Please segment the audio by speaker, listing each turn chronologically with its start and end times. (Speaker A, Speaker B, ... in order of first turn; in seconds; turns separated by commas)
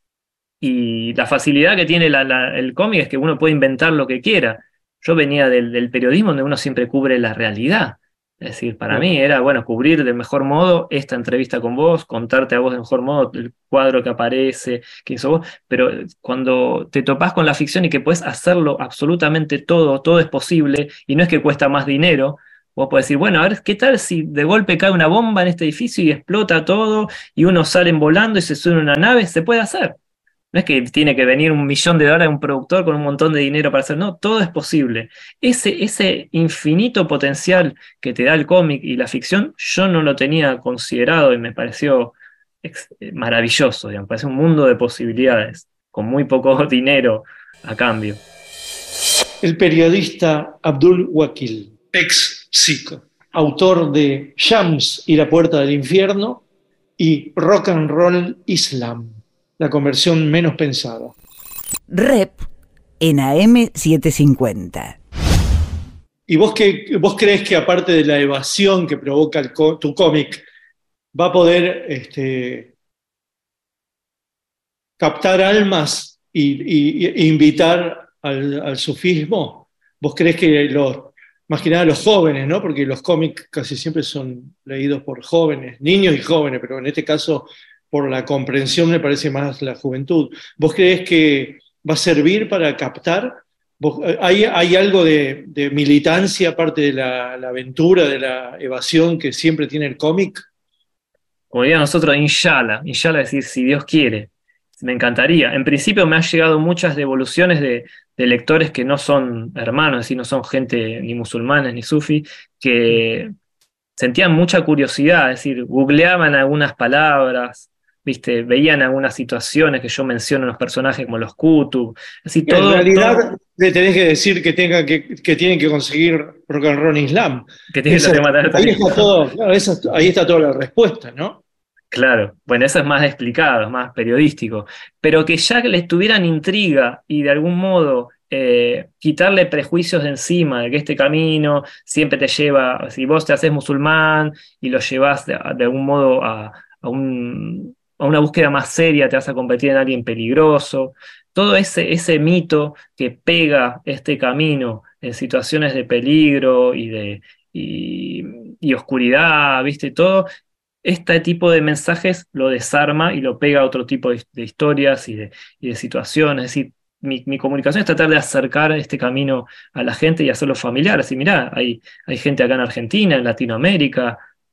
Speaker A: 0.6-30.0, Speaker A: 30.5-48.2, Speaker B: 49.4-56.4, Speaker B: 57.0-61.1, Speaker C: 61.9-62.5, Speaker C: 63.0-65.0, Speaker B: 66.3-70.4, Speaker B: 71.1-72.7, Speaker B: 75.0-100.4, Speaker A: 101.5-113.3, Speaker A: 114.0-123.3, Speaker B: 122.5-131.4, Speaker A: 127.7-129.1, Speaker A: 131.9-160.3, Speaker A: 160.8-174.2